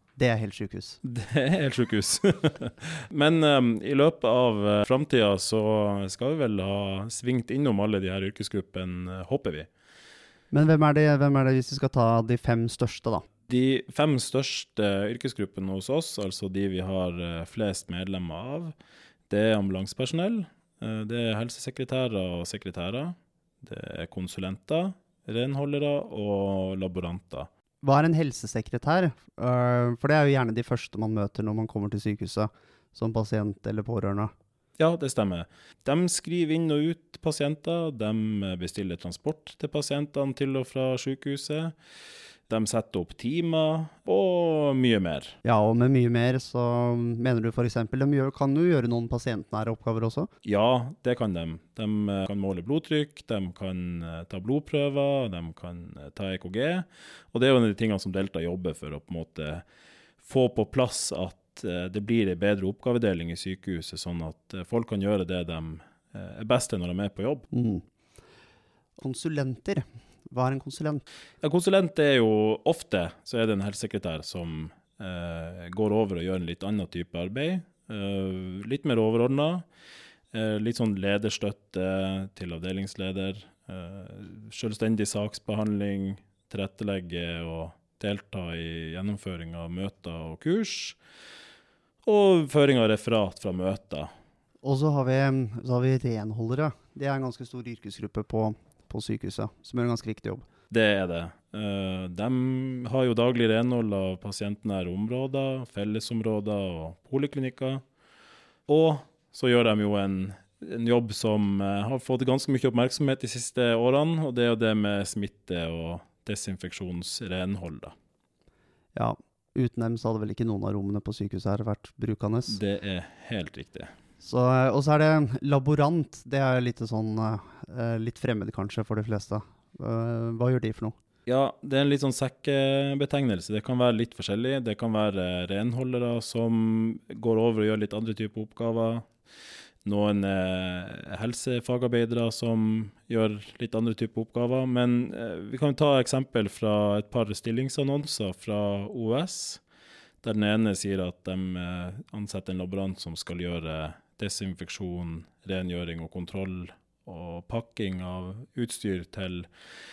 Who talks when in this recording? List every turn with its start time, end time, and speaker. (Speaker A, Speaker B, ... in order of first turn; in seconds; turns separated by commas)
Speaker A: 0.2-1.0, Speaker B: 1.0-9.7, Speaker A: 10.5-13.2, Speaker B: 13.5-18.7, Speaker B: 19.3-27.5, Speaker A: 27.8-34.3, Speaker B: 34.8-41.8, Speaker B: 42.5-45.4, Speaker A: 45.4-50.3, Speaker B: 50.4-59.6, Speaker B: 60.2-67.5, Speaker A: 67.5-67.8, Speaker A: 69.0-71.0, Speaker B: 71.4-79.7, Speaker B: 80.3-91.0, Speaker B: 92.0-94.1, Speaker A: 94.6-100.4, Speaker B: 100.7-107.8, Speaker B: 108.7-117.9, Speaker A: 119.0-122.6, Speaker B: 122.5-123.9, Speaker A: 124.2-131.0, Speaker B: 131.3-139.1, Speaker B: 139.8-149.6, Speaker B: 150.2-159.5